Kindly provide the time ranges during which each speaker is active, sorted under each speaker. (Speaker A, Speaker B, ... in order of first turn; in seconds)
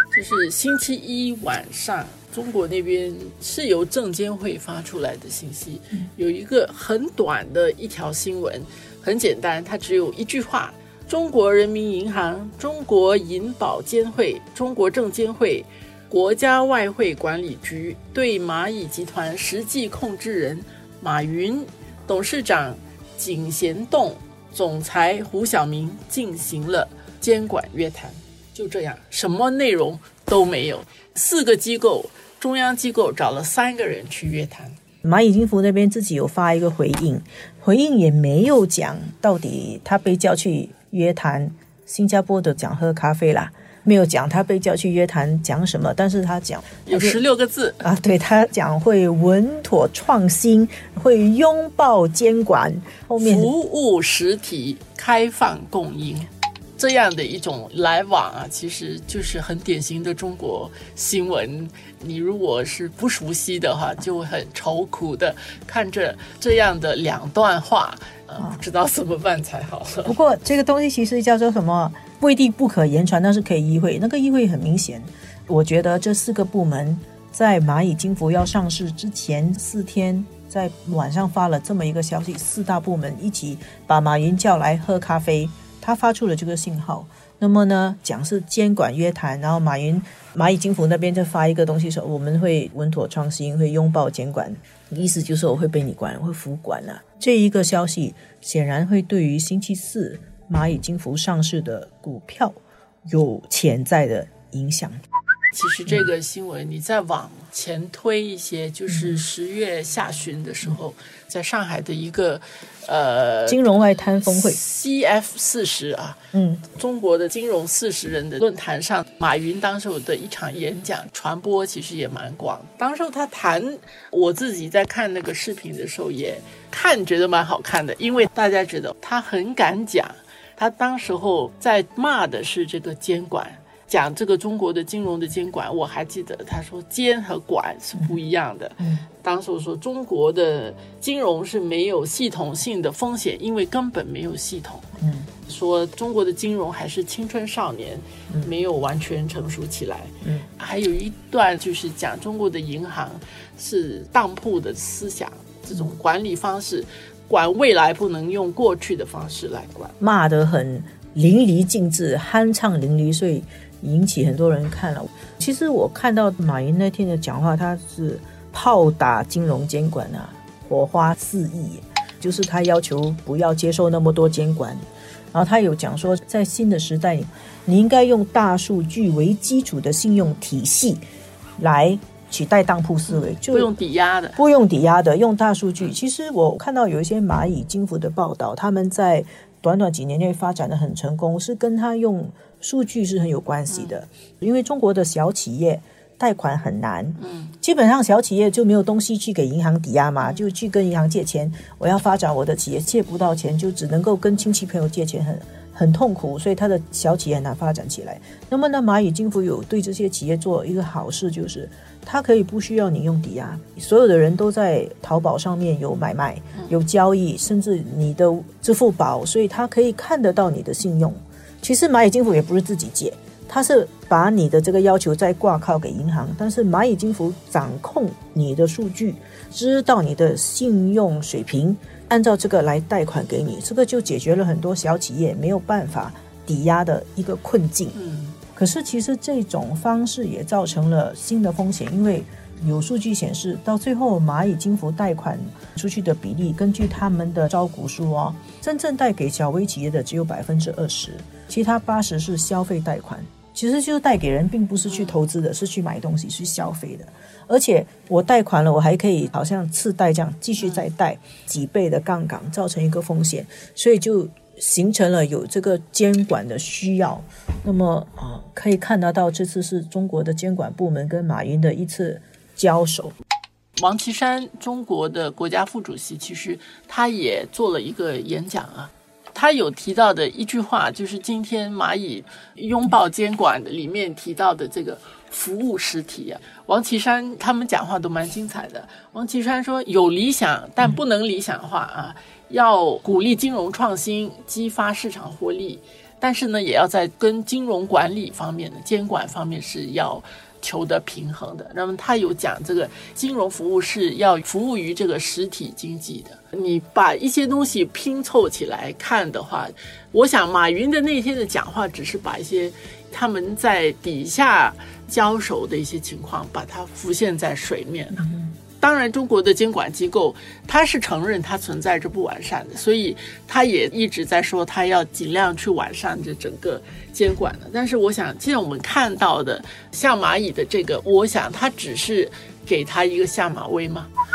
Speaker A: 0.1-34.8, 46.9-47.8, 53.2-70.2, 105.5-144.9, 145.4-159.9, 183.1-184.4, 193.7-194.0, 197.2-197.5, 237.9-238.4, 254.9-255.2, 260.6-260.9, 273.8-334.1
Speaker B: 35.0-47.2, 47.8-53.5, 70.1-102.6, 103.1-105.0, 108.9-109.2, 113.5-114.6, 116.3-116.6, 145.0-145.3, 160.0-174.8, 175.3-181.0, 181.6-183.7, 184.4-238.0, 238.6-273.1